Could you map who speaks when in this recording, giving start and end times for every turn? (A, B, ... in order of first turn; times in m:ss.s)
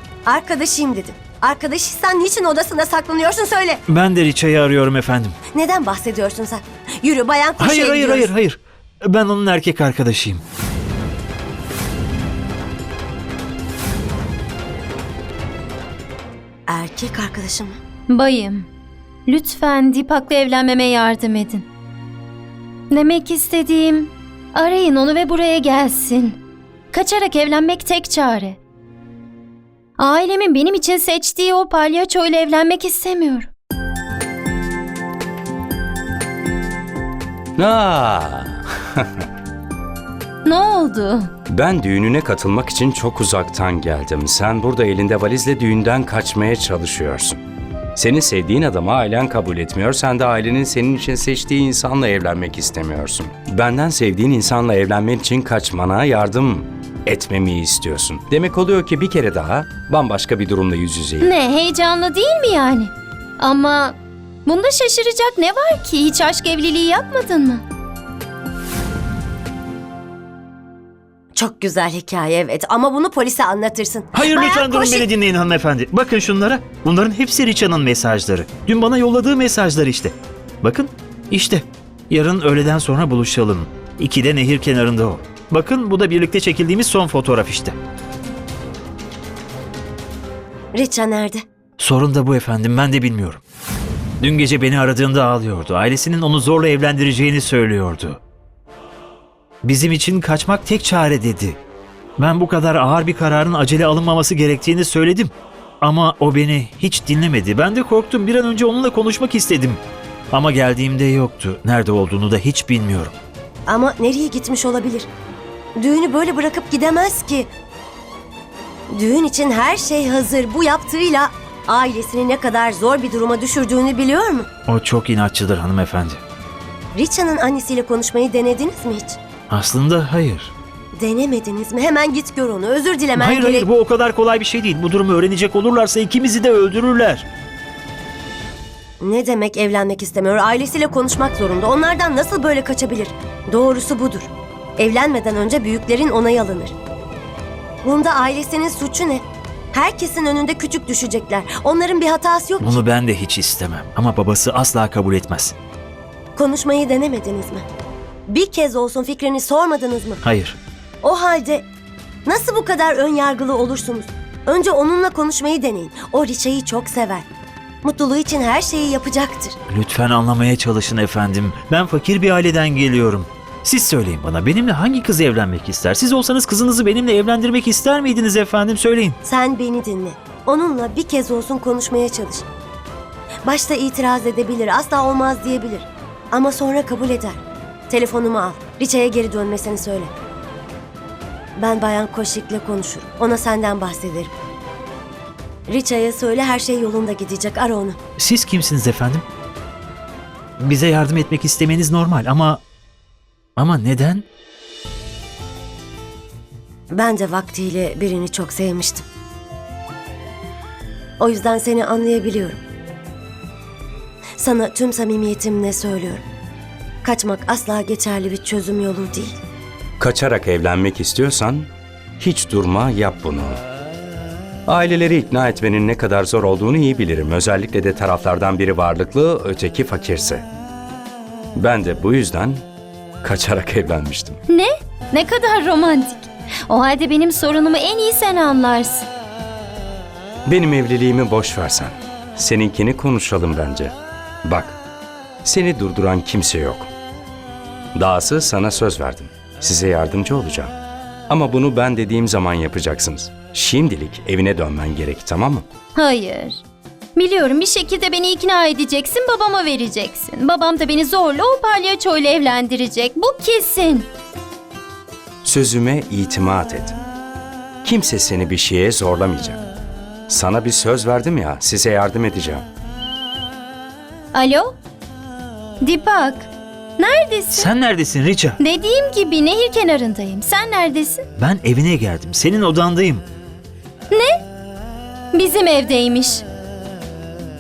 0:00.2-0:03.8 A
0:03.9-0:05.4 B
0:05.5-0:08.3 A
0:07.6-0:10.4 B
0:16.7-0:17.8 A
0:18.1-0:18.7 C
0:19.3-0:21.7 C
0:22.9-0:26.4 C
0:26.9-0:28.6 C
0:30.0-0:33.5 C
0:37.6-0:39.1 D
0:40.4-0:41.3 C
0:41.5-0:47.4 D
0:48.0-1:01.3 D
1:01.2-1:07.6 C
1:11.4-1:15.1 A
1:14.1-1:27.8 B
1:30.7-1:31.4 A
1:31.8-1:33.4 B
1:34.2-1:38.2 B
1:39.6-1:41.6 B
1:42.2-1:53.2 B
1:53.7-1:55.1 A
1:55.8-1:57.5 A
1:58.9-2:04.5 A
2:04.7-2:06.2 B
2:06.9-2:09.2 A
2:09.5-2:10.5 B
2:10.9-2:13.7 A
2:13.2-2:17.3 B
2:19.0-2:26.7 A
2:27.8-2:32.8 A
2:32.6-2:35.6 B
2:36.4-2:37.7 A
2:38.3-2:40.2 A
2:40.2-2:40.6 B
2:41.0-2:41.7 A
2:42.3-2:47.3 A
2:47.8-2:49.6 A
2:49.7-2:59.2 B
2:59.2-3:02.5 A
3:03.4-3:10.1 A
3:11.6-3:14.3 A
3:15.7-3:18.0 A
3:18.2-3:19.2 B
3:20.6-3:22.6 B
3:23.6-3:24.3 B
3:26.9-3:29.0 A
3:31.2-3:32.6 A
3:34.4-3:36.2 A
3:37.0-3:39.4 A
3:40.0-3:43.6 D
3:44.7-3:50.4 D
3:51.6-3:52.6 D
3:53.2-3:54.4 D
3:54.5-3:59.1 C
4:00.5-4:04.8 D
4:05.4-4:06.9 D
4:08.0-4:10.8 D
4:11.3-4:15.7 D
4:16.0-4:16.6 C
4:17.2-4:24.1 C
4:25.4-4:27.0 D
4:27.8-4:29.6 D
4:30.3-4:32.7 D
4:34.3-4:34.8 C
4:35.8-4:37.7 C
4:37.5-4:38.6 B
4:38.6-4:41.3 C
4:41.4-4:43.2 B
4:44.1-4:44.4 C
4:45.3-4:46.4 C